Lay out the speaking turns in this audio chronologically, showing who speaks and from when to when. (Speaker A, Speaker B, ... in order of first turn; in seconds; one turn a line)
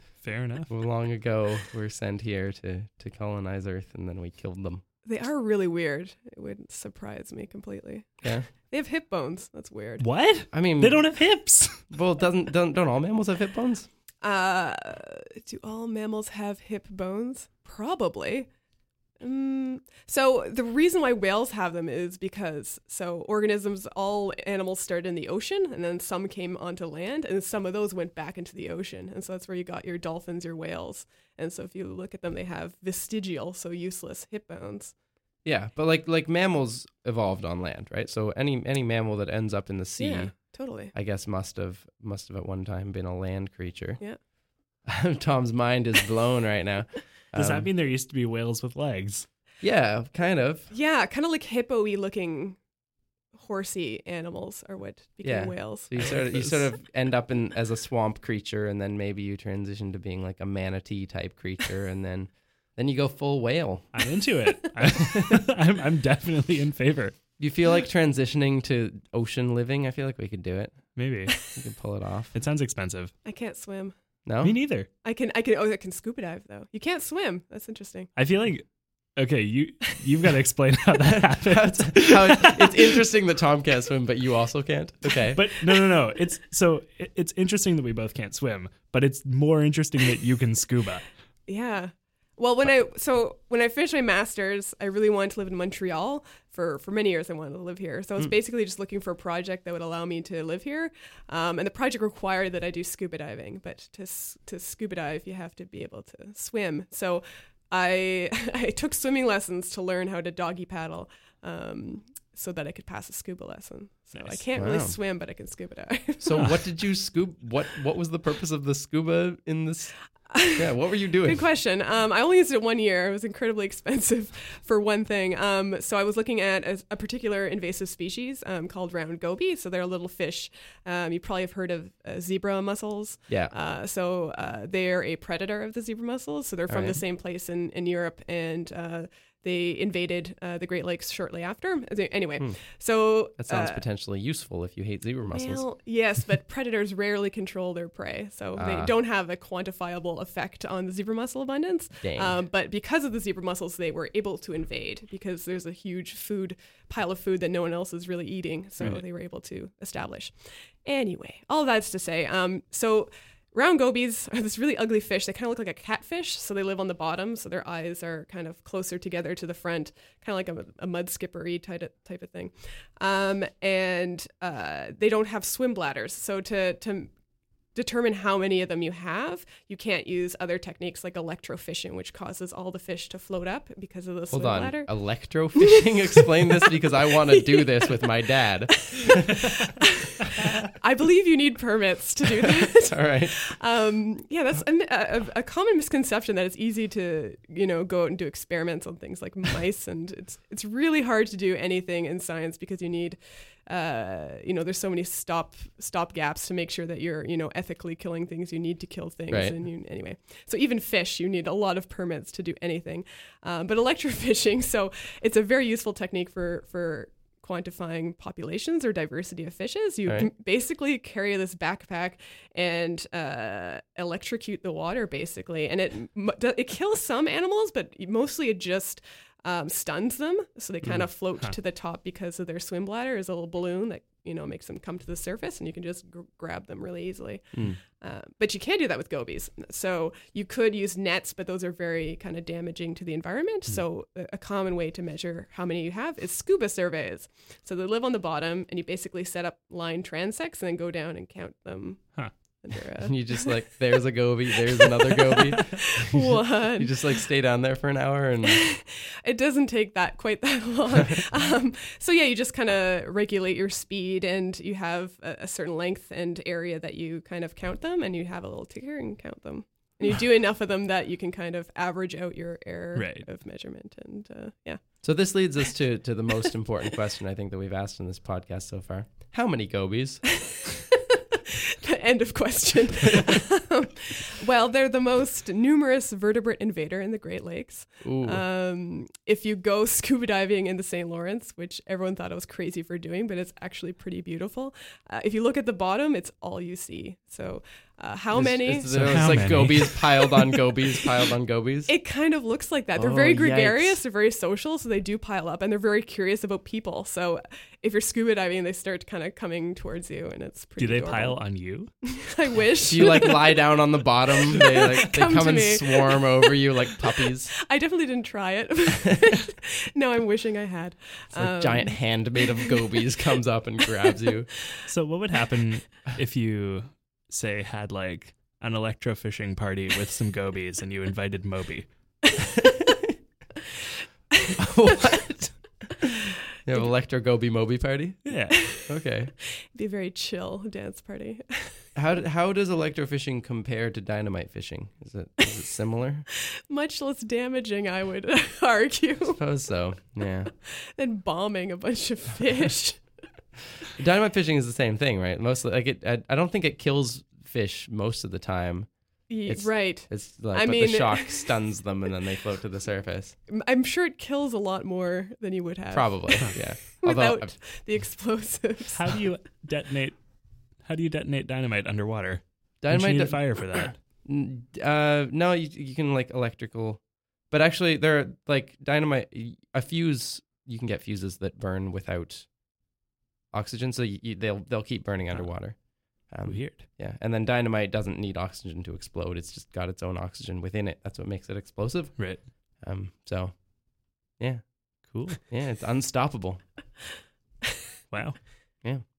Speaker A: 0.1-0.7
Speaker B: 0.7-4.8
Speaker C: 5.0-10.0
Speaker A: 10.0-11.9
Speaker B: 10.5-11.0
Speaker B: 11.9-13.9
Speaker C: 14.2-18.5
Speaker C: 19.2-34.9
Speaker B: 35.4-40.3
Speaker C: 40.0-40.9
Speaker B: 40.9-44.0
Speaker B: 44.9-47.7
Speaker A: 47.4-49.3
Speaker B: 49.6-50.7
Speaker C: 50.7-52.6
Speaker C: 53.4-56.1
Speaker B: 55.2-63.9
Speaker A: 56.0-56.6
Speaker A: 63.9-67.2
Speaker B: 67.4-70.9
Speaker A: 70.9-71.4
Speaker B: 71.5-72.3
Speaker A: 72.3-73.1
Speaker C: 73.2-73.9
Speaker B: 74.2-74.6
Speaker A: 74.4-74.9
Speaker C: 75.0-78.1
Speaker A: 78.2-83.0
Speaker B: 81.3-85.6
Speaker A: 85.3-91.1
Speaker C: 91.5-116.5
Speaker A: 114.1-114.4
Speaker B: 114.5-115.0
Speaker B: 116.2-119.9
Speaker C: 120.3-120.7
Speaker B: 120.5-121.4
Speaker C: 121.2-143.8
Speaker B: 136.7-137.0
Speaker B: 143.4-145.6
Speaker C: 145.3-160.3
Speaker B: 148.6-148.9
Speaker B: 152.0-152.4
Speaker C: 160.8-177.1
Speaker C: 177.7-184.9
Speaker B: 184.3-189.6
Speaker C: 185.5-186.7
Speaker C: 187.3-188.2
Speaker C: 188.7-253.6
Speaker B: 192.6-193.4
Speaker B: 209.3-209.5
Speaker B: 253.0-258.6
Speaker C: 254.6-257.2
Speaker C: 258.4-274.8
Speaker A: 272.9-273.3
Speaker B: 275.0-280.2
Speaker C: 280.4-301.0
Speaker B: 288.0-288.4
Speaker B: 298.3-301.9
Speaker A: 298.9-299.9
Speaker C: 301.9-311.4
Speaker B: 302.9-304.0
Speaker A: 310.8-311.9
Speaker C: 312.0-323.0
Speaker B: 312.9-317.5
Speaker B: 321.3-324.5
Speaker C: 324.0-324.8
Speaker A: 324.9-331.9
Speaker B: 332.6-332.9
Speaker B: 334.6-339.3
Speaker A: 338.2-338.6
Speaker C: 338.5-338.9
Speaker C: 339.6-341.9
Speaker B: 341.9-346.3
Speaker C: 346.3-349.4
Speaker B: 349.4-350.5
Speaker C: 350.6-353.0
Speaker B: 353.9-358.9
Speaker C: 359.3-361.6
Speaker B: 359.4-363.4
Speaker C: 363.5-369.2
Speaker B: 365.9-367.5
Speaker A: 368.9-370.2
Speaker A: 370.8-374.0
Speaker B: 372.8-382.5
Speaker B: 383.5-393.6
Speaker A: 386.4-386.9
Speaker A: 392.2-392.4
Speaker B: 394.4-394.8
Speaker A: 395.1-395.4
Speaker B: 395.4-396.6
Speaker A: 398.1-398.4